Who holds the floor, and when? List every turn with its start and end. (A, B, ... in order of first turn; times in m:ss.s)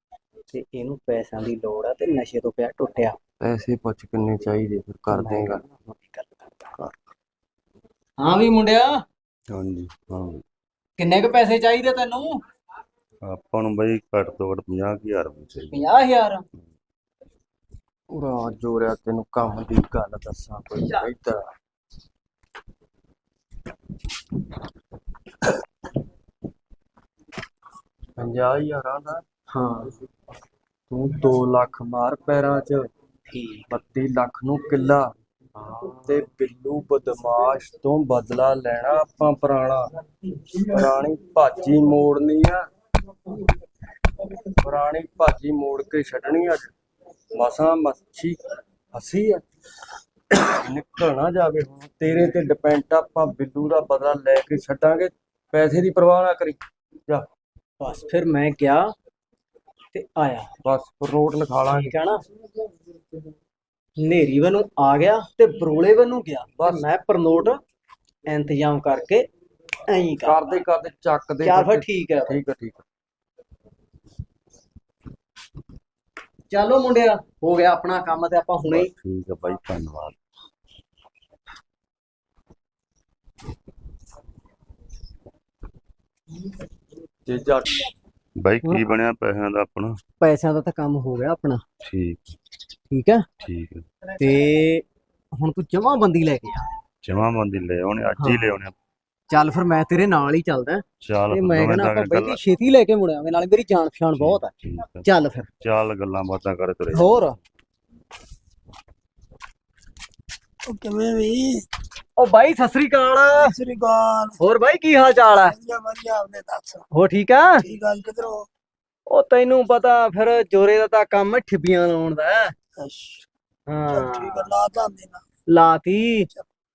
0:00.5-0:03.2 A
0:03.4-0:05.6 B
0:05.1-0:06.6 A
0:08.2-0:09.0 A
0:09.5-0:10.4 C
0:11.0-0:12.4 A
0:13.2-0:15.8 C
0:15.7-0:16.4 A
0:18.1-0:21.5 B
0:28.2-0:29.2 B
0:29.5-0:30.0 A
0:30.9-0:32.9 B
0:33.3-0:33.6 A
0:33.7-0:39.9 B
0:40.6-0:42.6 B
0:44.6-0:46.7 B
0:47.3-0:48.4 B
0:48.9-0:49.4 B
0:50.3-0:57.3 B
0:57.8-0:58.9 A
0:59.9-1:00.5 A
1:00.6-1:01.9 B
1:01.7-1:02.2 A
1:04.0-1:07.6 A
1:06.6-1:06.8 B
1:08.3-1:09.3 A
1:09.9-1:10.6 A
1:10.2-1:12.8 B
1:11.4-1:12.4 A
1:16.5-1:18.9 A
1:18.7-1:20.2 C
1:27.2-1:27.9 B
1:28.4-1:30.0 C
1:30.2-1:31.6 A
1:31.8-1:32.4 C
1:32.9-1:33.2 A
1:33.4-1:33.8 C
1:34.2-1:34.8 A
1:35.4-1:36.6 A
1:37.0-1:38.7 C
1:38.2-1:38.5 A
1:39.3-1:44.5 A
1:41.0-1:42.4 C
1:44.1-1:45.1 C
1:45.0-1:45.5 A
1:45.6-1:47.3 C
1:46.9-1:47.4 A
1:50.6-1:51.6 D
1:52.2-1:53.5 A
1:53.3-1:54.4 D
1:54.4-1:55.5 A
1:55.4-1:56.8 D
1:56.9-1:57.6 A
1:57.6-1:58.4 D
1:59.1-2:02.5 A
2:02.8-2:03.2 D
2:03.7-2:04.5 A
2:03.9-2:05.2 D
2:05.5-2:06.3 A